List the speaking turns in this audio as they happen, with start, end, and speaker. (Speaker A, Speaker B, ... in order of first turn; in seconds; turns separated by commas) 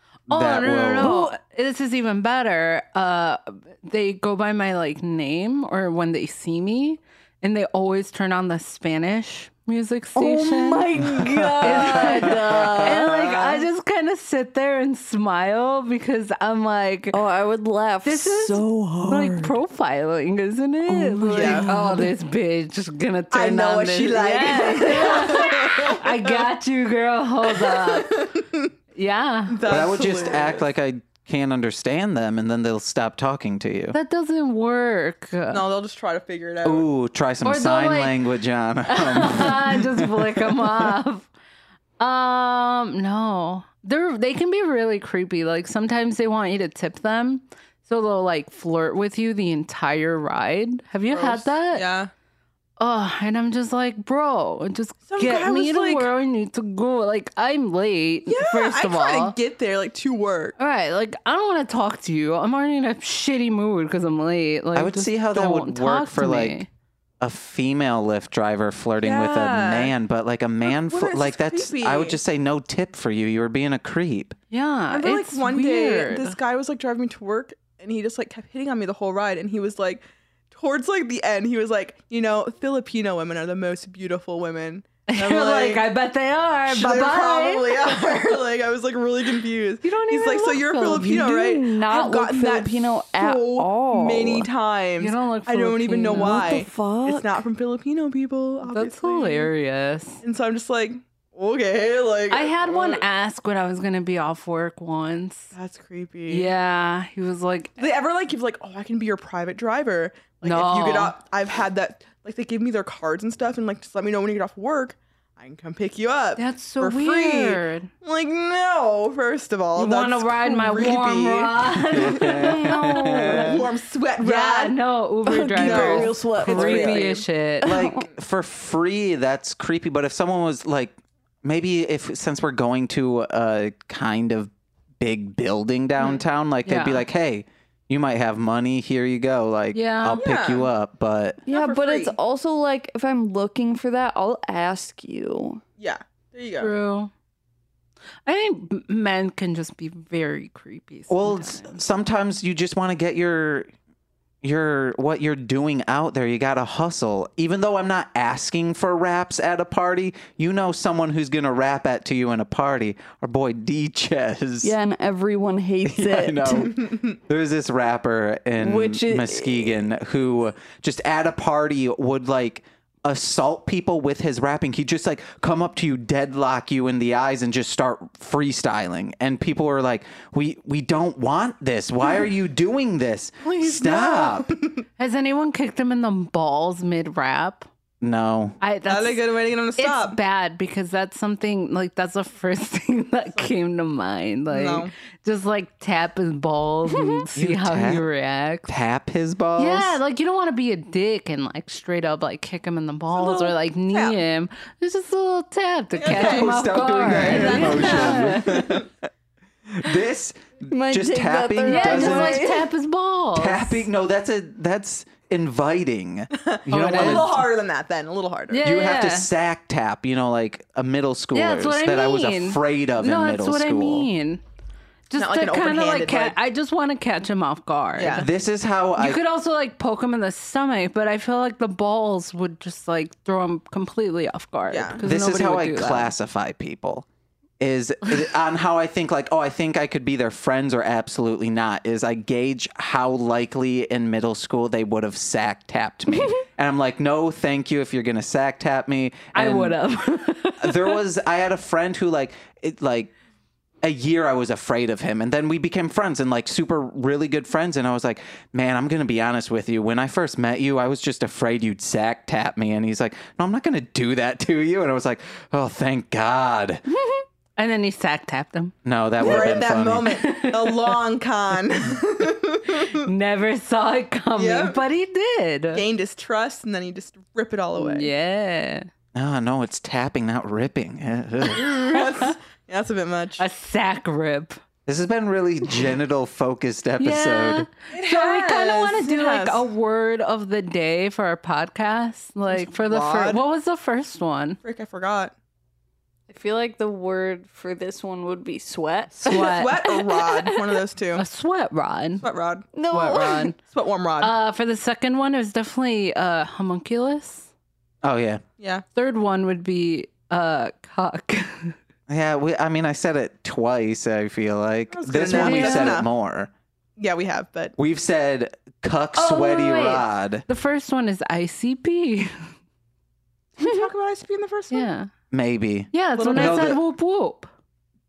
Speaker A: 0.3-1.2, Speaker B: 0.3-10.9, Speaker C: 1.0-1.3, Speaker C: 10.2-13.6, Speaker B: 11.6-17.2, Speaker A: 12.4-12.9, Speaker C: 17.1-19.6, Speaker B: 18.0-28.3, Speaker C: 20.9-22.1, Speaker D: 21.3-21.7, Speaker D: 23.3-26.4, Speaker D: 27.5-28.7, Speaker B: 28.9-29.8, Speaker D: 29.5-30.7, Speaker A: 29.7-34.0, Speaker B: 33.9-35.6, Speaker D: 35.5-36.9, Speaker A: 36.6-40.9, Speaker B: 37.4-38.2, Speaker B: 38.9-41.3, Speaker B: 42.0-51.9, Speaker D: 51.1-52.1, Speaker B: 52.8-59.4, Speaker D: 55.1-56.1, Speaker D: 58.3-60.5, Speaker B: 60.6-66.7, Speaker A: 64.8-66.6, Speaker A: 67.2-74.4, Speaker D: 69.0-69.9, Speaker D: 70.7-72.2, Speaker B: 74.5-76.4, Speaker D: 74.9-85.9, Speaker B: 85.1-88.3, Speaker D: 86.7-99.5, Speaker B: 89.8-91.3, Speaker C: 91.1-94.5, Speaker B: 95.0-96.5, Speaker C: 96.1-97.4, Speaker B: 98.7-100.2, Speaker D: 100.2-103.0, Speaker B: 102.3-105.5, Speaker D: 105.5-106.5, Speaker B: 106.3-107.8, Speaker D: 107.8-122.3, Speaker B: 110.4-111.2, Speaker B: 116.4-117.9, Speaker B: 119.8-123.3, Speaker A: 121.9-123.6, Speaker C: 122.3-123.6, Speaker D: 123.3-124.8, Speaker B: 124.2-127.8, Speaker C: 125.3-128.1, Speaker D: 125.6-127.2, Speaker A: 127.6-141.4, Speaker B: 136.7-137.1, Speaker B: 139.7-140.2, Speaker D: 140.2-140.7, Speaker C: 141.5-145.6, Speaker D: 141.5-142.2, Speaker D: 145.8-146.7, Speaker B: 146.6-147.1, Speaker B: 148.2-151.8, Speaker A: 151.1-153.7, Speaker A: 154.4-164.7, Speaker C: 164.6-166.8, Speaker A: 165.8-184.5, Speaker C: 168.6-169.8, Speaker D: 183.4-184.8, Speaker B: 185.0-187.7, Speaker A: 188.0-188.6, Speaker B: 188.6-189.2, Speaker D: 188.9-190.2, Speaker B: 189.8-198.7, Speaker D: 194.5-194.9, Speaker C: 196.9-197.2, Speaker A: 197.3-198.1, Speaker A: 198.7-200.0, Speaker B: 199.6-208.7, Speaker D: 203.1-204.2, Speaker D: 206.0-208.8, Speaker A: 206.1-209.0, Speaker A: 209.8-212.5, Speaker C: 210.7-212.7, Speaker B: 211.7-213.8, Speaker A: 213.3-217.5, Speaker D: 216.3-218.6, Speaker B: 216.7-217.4, Speaker B: 218.5-219.3, Speaker A: 218.6-224.1, Speaker B: 221.3-224.4, Speaker B: 225.1-228.3, Speaker D: 225.2-226.4, Speaker D: 228.0-228.3, Speaker A: 228.1-229.2, Speaker B: 229.0-236.1, Speaker D: 234.7-235.0, Speaker A: 235.0-237.1, Speaker A: 237.6-249.8, Speaker B: 249.3-251.0, Speaker A: 250.6-253.1, Speaker A: 253.8-266.8, Speaker B: 267.6-270.9, Speaker A: 268.9-270.1, Speaker D: 269.2-273.1, Speaker B: 272.8-275.8, Speaker D: 274.4-274.8, Speaker D: 275.8-278.1, Speaker B: 277.8-278.9, Speaker A: 279.1-281.7, Speaker D: 281.5-283.4, Speaker B: 283.4-284.6, Speaker A: 284.9-287.7, Speaker B: 287.0-294.6, Speaker D: 287.9-289.7, Speaker D: 292.5-293.4, Speaker D: 294.6-295.3, Speaker C: 296.3-300.4, Speaker B: 299.2-299.9, Speaker D: 299.3-301.2, Speaker B: 301.2-302.2, Speaker D: 302.2-302.7, Speaker C: 302.7-303.5, Speaker B: 302.9-303.6, Speaker D: 303.6-304.3, Speaker B: 304.2-307.5, Speaker A: 308.0-308.4, Speaker D: 308.6-308.8, Speaker B: 308.9-311.8, Speaker A: 312.1-316.5, Speaker D: 314.9-316.1, Speaker B: 315.3-316.0, Speaker D: 317.0-317.8, Speaker A: 317.8-320.4, Speaker B: 319.2-322.5, Speaker D: 323.6-324.9, Speaker B: 324.7-325.1, Speaker A: 325.3-326.8, Speaker B: 325.9-327.5, Speaker D: 326.2-326.7